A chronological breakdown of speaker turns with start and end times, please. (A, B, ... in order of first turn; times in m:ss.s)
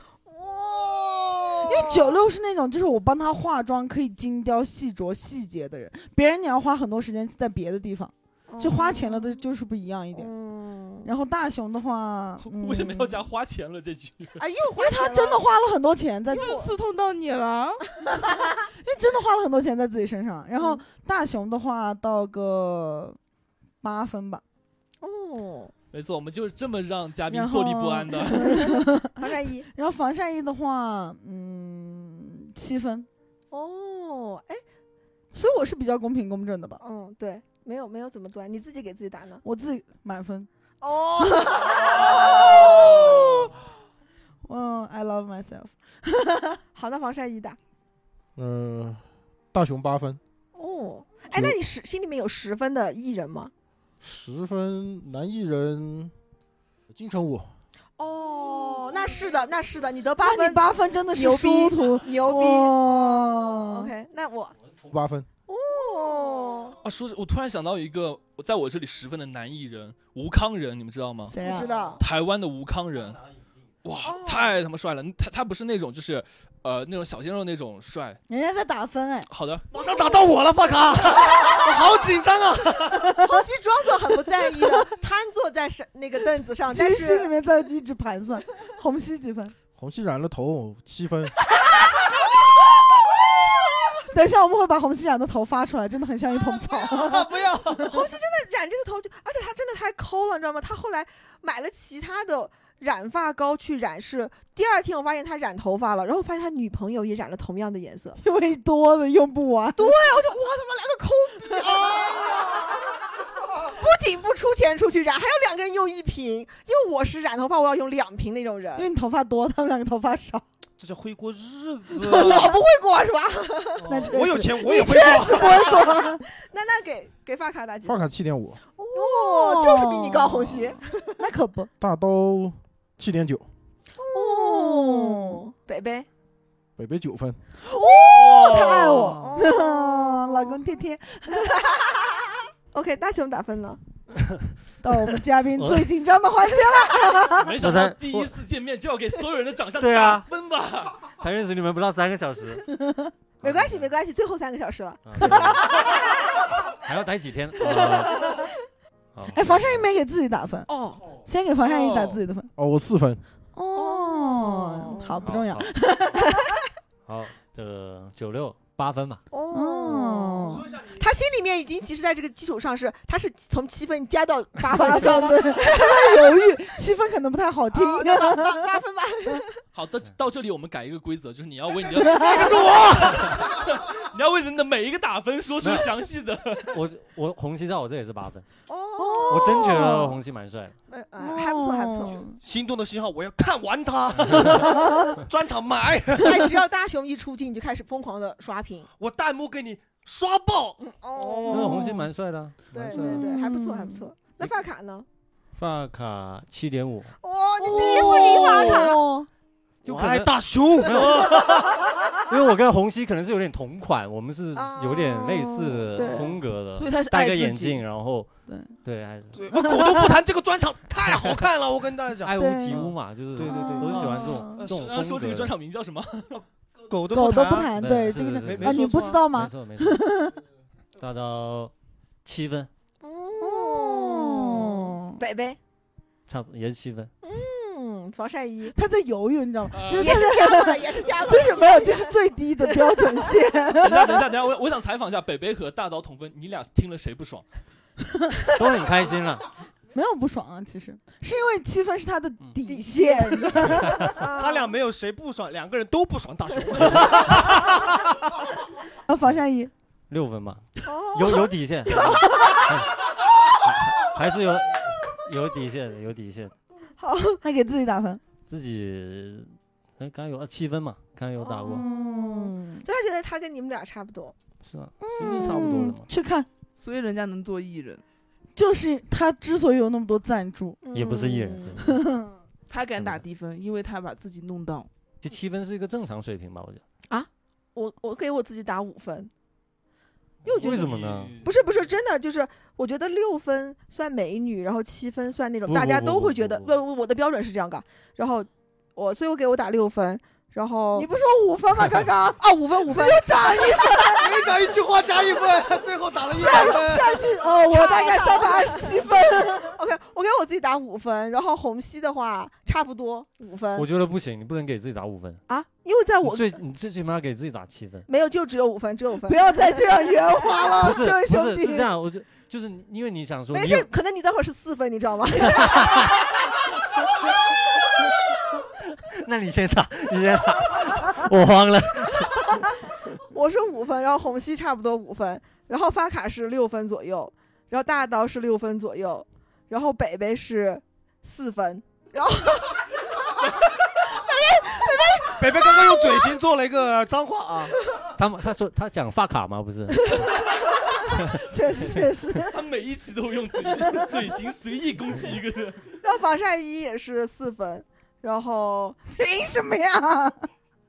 0:00.2-0:02.2 A
0:01.6-0:10.3 B
0:08.5-0:09.4 A
0:10.1-0:11.1 A
0:11.0-0:13.2 B
0:12.4-0:14.4 C
0:14.4-0:15.4 A
0:14.8-0:16.6 B
0:16.3-0:17.8 D
0:18.8-0:23.2 B
0:23.8-0:24.4 B
0:25.0-0:25.7 A
0:25.9-0:28.7 C
0:27.3-0:29.1 B
0:29.2-0:29.7 A
0:29.7-0:33.1 B
0:33.5-0:34.6 A
0:35.3-0:36.8 B
0:36.8-0:39.4 A
0:39.4-0:40.5 B
0:40.8-0:43.4 A
0:42.0-0:43.4 B
0:44.4-0:46.6 B
0:46.7-0:47.6 A
0:48.4-0:50.2 E
0:50.5-0:53.5 A
0:51.3-0:51.6 E
0:54.0-0:56.1 E
0:56.9-0:57.5 E
0:58.0-1:04.6 A
1:00.2-1:03.9 B
1:04.9-1:05.3 E
1:05.5-1:06.8 A
1:06.8-1:11.3 C
1:11.2-1:11.7 B
1:11.4-1:12.0 A
1:12.0-1:13.2 C
1:13.8-1:18.2 C
1:14.0-1:14.6 A
1:18.3-1:19.3 B
1:19.3-1:19.6 C
1:19.7-1:23.0 F
1:19.7-1:20.2 A
1:21.3-1:21.7 A
1:22.9-1:23.2 B
1:23.1-1:27.3 A
1:26.7-1:29.5 B
1:29.8-1:31.3 E
1:34.1-1:37.9 B
1:36.9-1:37.8 F
1:37.8-1:48.2 A
1:48.2-1:49.9 B
1:49.8-1:52.9 A
1:53.6-1:58.9 A
1:58.8-2:00.4 B
2:00.8-2:02.6 F
2:02.0-2:04.0 A
2:03.8-2:05.7 F
2:03.9-2:06.2 B
2:04.6-2:08.1 A
2:07.8-2:08.6 E
2:08.8-2:11.1 A
2:08.9-2:11.7 B
2:11.8-2:13.5 E
2:14.0-2:15.4 B
2:14.0-2:16.1 A
2:16.8-2:17.4 E
2:17.7-2:21.5 B
2:17.8-2:20.6 A
2:18.1-2:19.3 F
2:21.4-2:22.0 A
2:22.7-2:23.8 A
2:24.8-2:27.5 B
2:25.6-2:25.9 G
2:26.5-2:26.9 A
2:27.4-2:31.0 C
2:27.6-2:28.3 G
2:29.8-2:30.2 G
2:31.2-2:32.6 G
2:32.8-2:33.1 B
2:33.4-2:33.9 G
2:33.4-2:36.0 A
2:35.0-2:35.6 G
2:36.8-2:38.3 G
2:37.6-2:38.4 A
2:39.1-2:39.8 G
2:39.3-2:42.5 B
2:40.7-2:41.1 A
2:41.6-2:42.2 C
2:42.6-2:43.2 E
2:43.5-2:46.2 B
2:43.7-2:45.2 A
2:45.2-2:45.7 G
2:47.0-2:49.2 G
2:49.3-2:56.4 A
2:49.5-2:50.6 B
2:50.4-2:51.1 F
2:54.7-2:58.7 B
2:57.7-2:59.6 A
2:59.7-3:06.8 C
3:02.0-3:02.5 B
3:02.1-3:03.4 F
3:05.6-3:05.9 G
3:06.7-3:08.4 G
3:08.7-3:10.0 A
3:09.0-3:10.1 B
3:09.3-3:10.8 G
3:10.9-3:12.3 A
3:11.2-3:12.4 B
3:12.4-3:16.4 F
3:14.6-3:15.1 B
3:16.2-3:18.9 A
3:19.0-3:20.8 F
3:20.8-3:22.0 A
3:21.2-3:22.1 B
3:21.5-3:23.3 G
3:22.7-3:25.0 A
3:22.9-3:24.1 B
3:25.5-3:27.1 G
3:27.2-3:29.0 A
3:27.6-3:29.3 B
3:29.8-3:31.4 G
3:29.8-3:31.8 F
3:32.3-3:38.3 G
3:34.5-3:36.4 A
3:36.7-3:37.8 D
3:38.5-3:38.7 B
3:38.8-3:39.4 G
3:39.3-3:44.9 F
3:39.5-3:40.2 B
3:41.0-3:41.5 G
3:42.2-3:45.5 G
3:42.4-3:42.9 B
3:43.4-3:44.6 B
3:44.6-3:46.3 C
3:46.3-3:49.3 F
3:47.1-3:50.3 B
3:47.7-3:50.0 G
3:51.0-3:51.7 G
3:52.2-3:52.7 G
3:53.0-3:55.6 A
3:53.4-3:55.2 B
3:56.3-3:57.1 G
3:57.2-3:58.7 A
3:58.7-4:04.2 B
3:59.7-4:00.3 C
3:59.9-4:03.3 A
4:03.8-4:07.4 C
4:08.5-4:09.4 G
4:09.9-4:14.2 B
4:12.7-4:14.7 A
4:13.8-4:14.1 G
4:14.3-4:18.1 F
4:19.1-4:19.7 B
4:20.1-4:22.9 G
4:20.8-4:22.8 A
4:23.6-4:26.5 G
4:27.0-4:27.4 A
4:27.4-4:28.2 B
4:28.5-4:31.8 G
4:31.4-4:34.3 A
4:31.7-4:32.8 B
4:34.6-4:36.1 G
4:35.0-4:36.5 B
4:36.8-4:38.0 D
4:38.6-4:40.8 B
4:40.8-4:41.8 A
4:40.9-4:42.0 G
4:41.8-4:42.3 B
4:42.7-4:44.9 D
4:43.0-4:43.2 G
4:45.2-4:46.8 G
4:47.1-4:49.3 A
4:50.4-5:01.1 A
4:50.5-4:51.4 G
4:50.6-4:51.5 C
4:55.7-4:56.7 G
5:00.9-5:04.3 B
5:02.4-5:04.3 A
5:04.2-5:07.2 F
5:06.3-5:09.8 B
5:06.5-5:06.8 A
5:07.5-5:13.9 A
5:13.7-5:15.4 G
5:15.5-5:16.6 A
5:16.2-5:18.1 G
5:18.1-5:20.4 A
5:19.2-5:21.9 B
5:20.8-5:23.9 G
5:23.5-5:26.2 A
5:25.4-5:26.2 G
5:29.1-5:32.5 G
5:33.2-5:46.4 A
5:45.4-5:47.7 F
5:48.2-5:50.2 G
5:51.1-5:52.0 G
5:51.2-5:52.6 B
5:52.5-5:55.8 C
5:56.0-5:59.0 A
5:59.1-6:00.5 B